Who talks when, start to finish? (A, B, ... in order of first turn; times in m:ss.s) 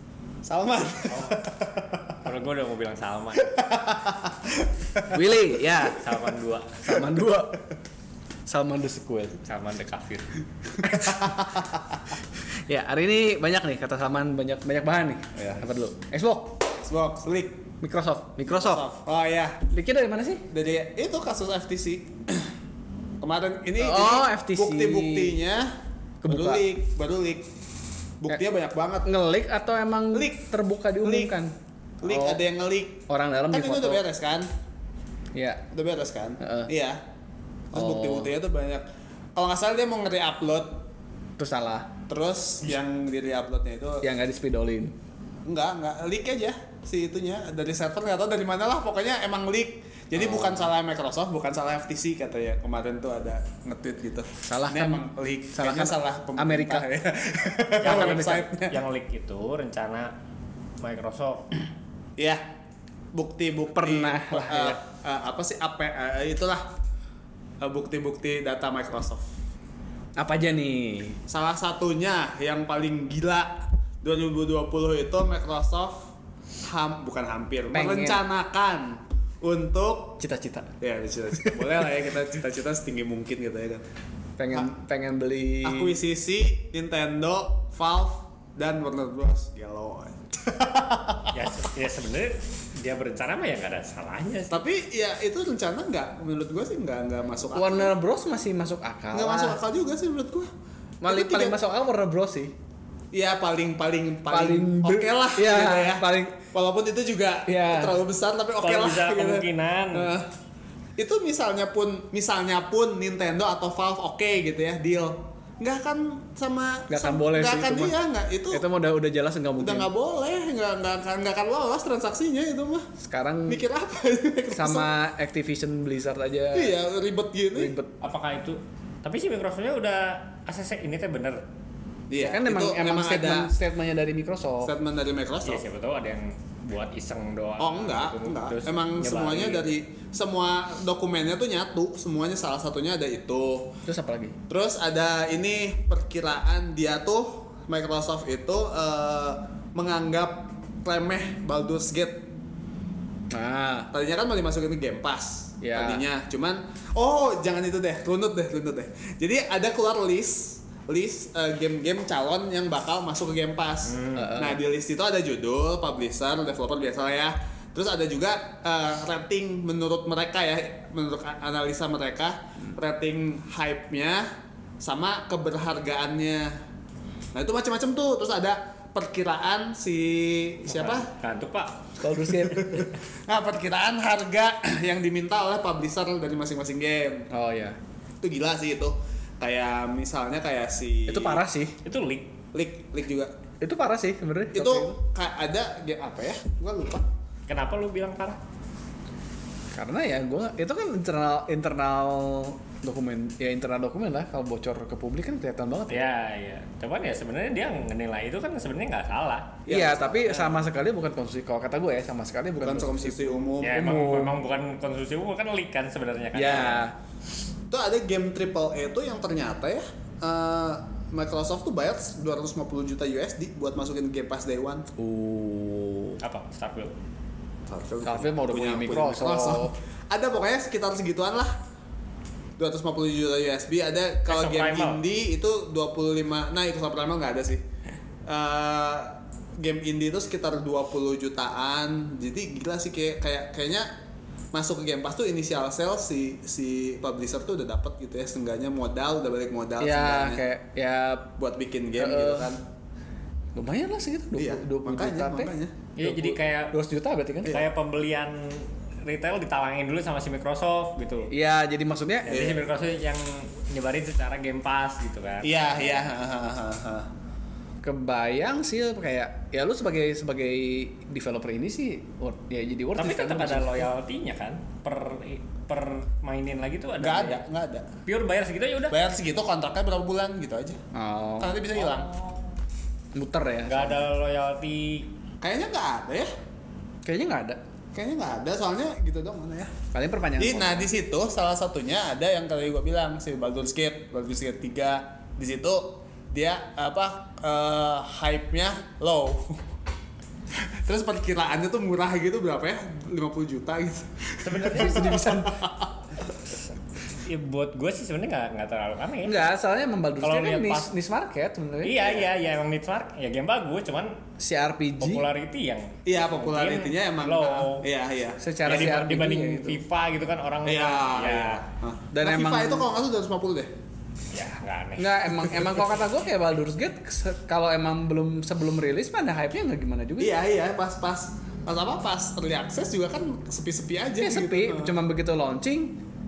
0:00.4-0:02.1 A
0:01.1-0:01.4 B
0:02.2-0:03.6 B
0:03.4-0:05.2 A
0:05.1-0:06.0 C
0:05.9-0:07.0 B
0:06.8-0:07.6 C
0:08.5-0:09.4 C
0:09.4-0:10.3 B
0:10.8-0:11.7 C
0:12.7-0:16.6 C
0:15.3-0:15.6 A
0:16.8-0:17.7 A
0:17.8-0:18.8 C
0:18.4-0:19.6 A
0:19.7-0:20.4 C
0:20.5-0:22.5 A
0:23.2-0:25.7 A
0:23.8-0:25.4 C
0:26.2-0:26.7 C
0:26.3-0:27.5 A
0:28.2-0:29.1 A
0:29.0-0:31.5 C
0:30.1-0:30.5 A
0:31.0-0:31.3 A
0:32.0-0:34.5 A
0:32.0-0:32.4 C
0:33.1-0:34.0 C
0:35.3-0:35.6 C
0:35.7-0:37.0 A
0:36.4-0:36.7 C
0:37.7-0:38.8 A
0:37.7-0:38.3 C
0:39.4-0:40.8 A
0:41.4-0:41.9 C
0:42.1-0:44.1 A
0:44.0-0:44.9 C
0:45.4-0:58.8 A
0:50.2-0:50.7 C
0:54.4-0:56.9 C
0:57.8-0:58.5 C
0:57.8-1:00.1 B
1:00.8-1:01.5 B
1:02.2-1:02.5 A
1:03.1-1:06.7 A
1:03.7-1:04.8 C
1:07.6-1:09.3 A
1:10.2-1:11.2 C
1:11.3-1:16.1 A
1:16.6-1:20.2 A
1:17.7-1:18.2 C
1:20.2-1:20.7 C
1:20.8-1:23.8 A
1:21.4-1:22.0 C
1:24.4-1:26.0 C
1:25.6-1:31.5 A
1:31.3-1:34.6 B
1:34.5-1:37.9 A
1:37.5-1:39.6 C
1:39.1-1:40.5 A
1:41.0-1:42.5 C
1:41.0-1:41.6 A
1:43.1-1:50.3 A
1:44.3-1:46.4 C
1:47.5-1:48.0 C
1:48.6-1:50.1 B
1:51.0-1:58.6 A
1:56.9-1:57.9 C
1:58.5-1:59.9 C
1:59.6-2:02.9 A
2:03.0-2:03.6 C
2:03.5-2:04.9 A
2:04.5-2:06.8 C
2:06.5-2:07.7 A
2:07.5-2:07.9 C
2:08.0-2:11.4 B
2:12.1-2:13.5 A
2:12.2-2:14.7 C
2:14.6-2:15.6 A
2:15.4-2:19.7 B
2:17.6-2:23.7 A
2:23.8-2:24.4 C
2:24.5-2:32.3 A
2:33.3-2:33.9 C
2:33.9-2:54.3 A
2:35.6-2:36.0 C
2:43.9-2:44.4 B
2:44.1-2:44.6 C
2:54.8-2:56.6 A
2:57.3-3:01.1 A
3:00.7-3:02.0 B
3:02.0-3:02.9 C
3:02.4-3:07.3 A
3:07.3-3:07.8 C
3:08.2-3:11.4 A
3:11.1-3:11.8 C
3:11.8-3:12.3 B
3:12.5-3:13.3 A
3:13.6-3:15.0 C
3:14.5-3:17.1 A
3:17.5-3:18.4 B
3:19.7-3:26.1 C
3:25.9-3:29.6 B
3:29.6-3:30.6 A
3:29.7-3:34.4 C
3:32.6-3:34.0 A
3:33.6-3:36.8 B
3:36.3-3:37.0 C
3:37.7-3:44.9 A
3:45.0-3:46.2 C
3:46.2-3:46.9 B
3:47.7-3:51.6 A
3:48.0-3:49.7 C
3:52.6-3:57.6 A
3:54.2-3:55.0 B
3:58.2-4:03.9 A
4:04.5-4:10.4 A
4:09.8-4:11.3 C
4:11.4-4:12.6 A
4:12.0-4:12.5 C
4:13.5-4:17.6 C
4:14.3-4:15.7 A
4:16.0-4:16.8 B
4:17.4-4:21.3 B
4:21.3-4:22.4 C
4:22.2-4:25.9 B
4:22.3-4:22.7 A
4:25.4-4:27.1 A
4:27.8-4:33.9 C
4:32.9-4:37.4 B
4:37.0-4:37.9 A
4:38.0-4:39.0 B
4:38.9-4:40.8 A
4:40.9-4:41.6 C
4:41.4-4:42.1 A
4:41.7-4:42.6 B
4:43.1-4:44.0 C
4:43.6-4:45.1 B
4:45.4-4:46.3 A
4:47.0-4:47.6 C
4:47.9-4:49.8 A
4:49.9-4:50.9 C
4:50.4-4:59.7 A
5:00.5-5:05.9 A
5:04.4-5:05.3 B
5:04.6-5:05.7 C
5:07.1-5:09.4 B
5:09.2-5:12.0 C
5:10.2-5:10.9 B
5:11.8-5:14.2 B
5:12.0-5:12.3 A
5:14.4-5:15.3 C
5:15.0-5:17.9 B
5:16.0-5:19.0 A
5:18.4-5:19.8 C
5:18.6-5:21.6 B
5:20.6-5:23.7 A
5:22.1-5:22.9 C
5:24.3-5:25.6 B
5:25.0-5:30.4 C
5:30.2-5:35.0 A
5:34.2-5:36.0 C